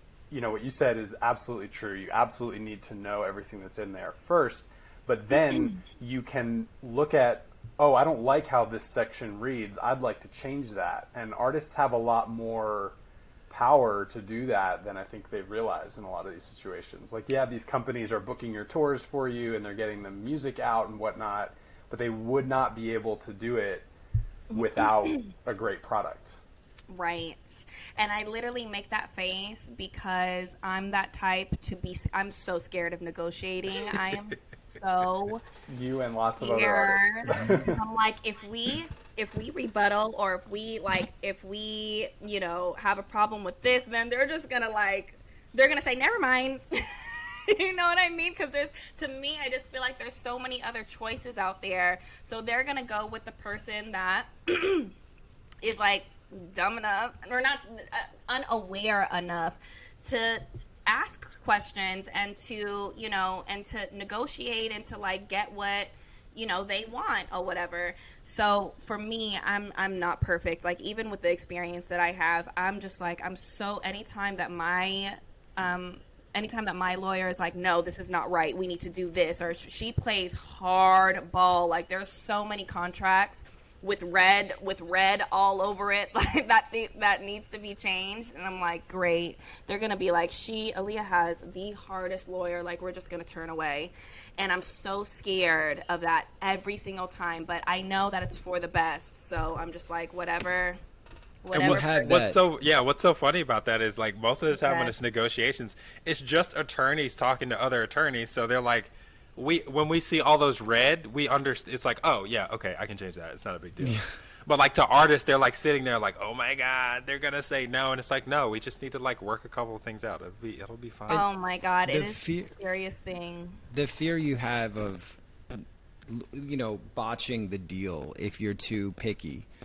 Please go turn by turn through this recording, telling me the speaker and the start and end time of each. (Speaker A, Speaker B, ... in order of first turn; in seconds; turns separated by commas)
Speaker A: 0.3-13.0, Speaker B: 5.3-5.8, Speaker A: 13.5-23.9, Speaker B: 24.5-24.9, Speaker A: 24.5-26.4, Speaker B: 26.9-54.9, Speaker A: 35.7-37.8, Speaker B: 55.6-100.8, Speaker B: 101.4-102.1, Speaker C: 101.5-121.2, Speaker D: 101.5-102.4, Speaker B: 104.5-104.9, Speaker D: 113.8-114.1, Speaker B: 121.1-123.6, Speaker D: 121.8-122.5, Speaker D: 123.7-129.5